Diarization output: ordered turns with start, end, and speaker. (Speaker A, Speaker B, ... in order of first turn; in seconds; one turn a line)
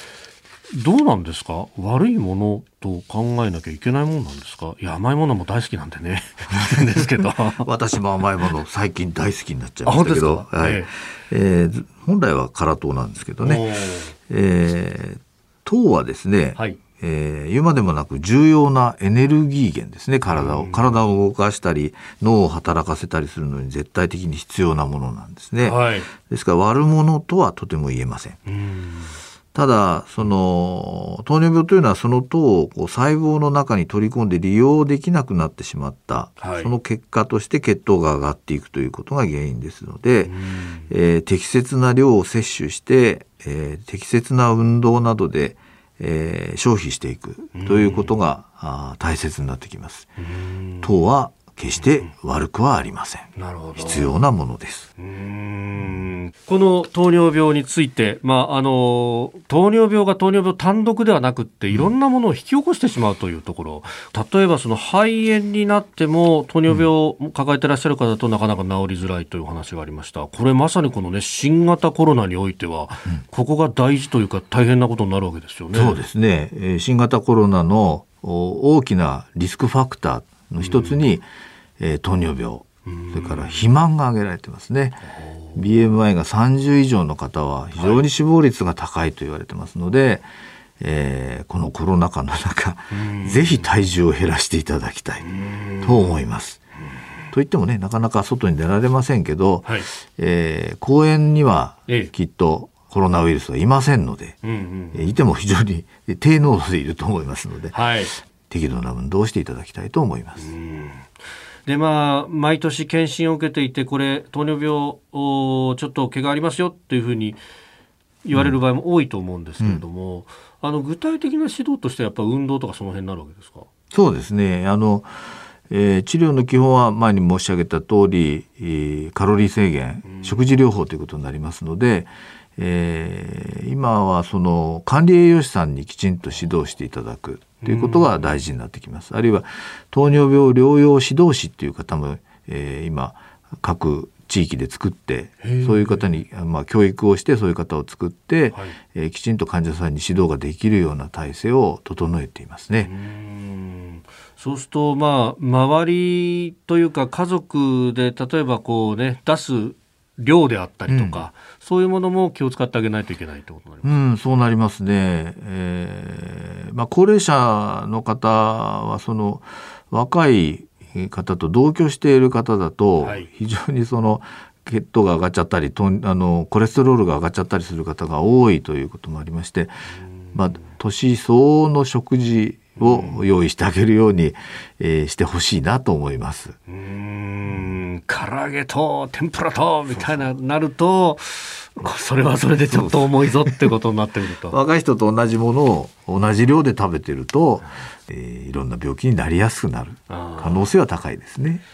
Speaker A: 0.7-7.7
Speaker B: 6.8-13.7
Speaker A: 9.8-10.9
Speaker A: 13.4-14.1
Speaker B: 14.2-28.4
Speaker A: 20.3-21.0
Speaker A: 25.6-26.1
Speaker A: 28.5-29.1
Speaker B: 29.5-40.4
Speaker A: 36.4-36.7
Speaker A: 40.2-40.9
Speaker B: 40.9-50.1
Speaker A: 47.5-48.1
Speaker A: 50.2-50.9
Speaker B: 50.8-54.9
Speaker A: 53.4-54.1
Speaker A: 55.0-76.0
Speaker B: 75.7-81.2
Speaker A: 80.6-81.0
Speaker B: 81.8-90.2
Speaker A: 82.8-83.6
Speaker A: 85.1-85.6
Speaker A: 87.8-88.0
Speaker B: 90.8-95.3
Speaker A: 92.9-93.7
Speaker A: 95.2-96.2
Speaker B: 95.8-96.6
Speaker B: 97.3-104.4
Speaker A: 104.4-105.1
Speaker B: 104.9-107.8
Speaker A: 107.7-108.1
Speaker B: 108.3-110.5
Speaker A: 110.4-111.1
Speaker A: 111.7-117.4
Speaker A: 118.2-123.7
Speaker B: 118.3-118.6
Speaker B: 119.6-119.8
Speaker B: 123.9-125.1
Speaker B: 125.7-152.9
Speaker A: 130.1-130.4
Speaker A: 137.6-138.2
Speaker A: 145.4-146.2
Speaker A: 152.8-163.9
Speaker B: 160.9-161.2
Speaker B: 163.8-186.6
Speaker A: 173.0-173.3
Speaker A: 180.0-180.6
Speaker A: 182.8-183.2
Speaker A: 186.7-194.6
Speaker B: 189.9-190.3
Speaker B: 192.7-193.7
Speaker B: 194.5-201.6
Speaker A: 200.1-200.7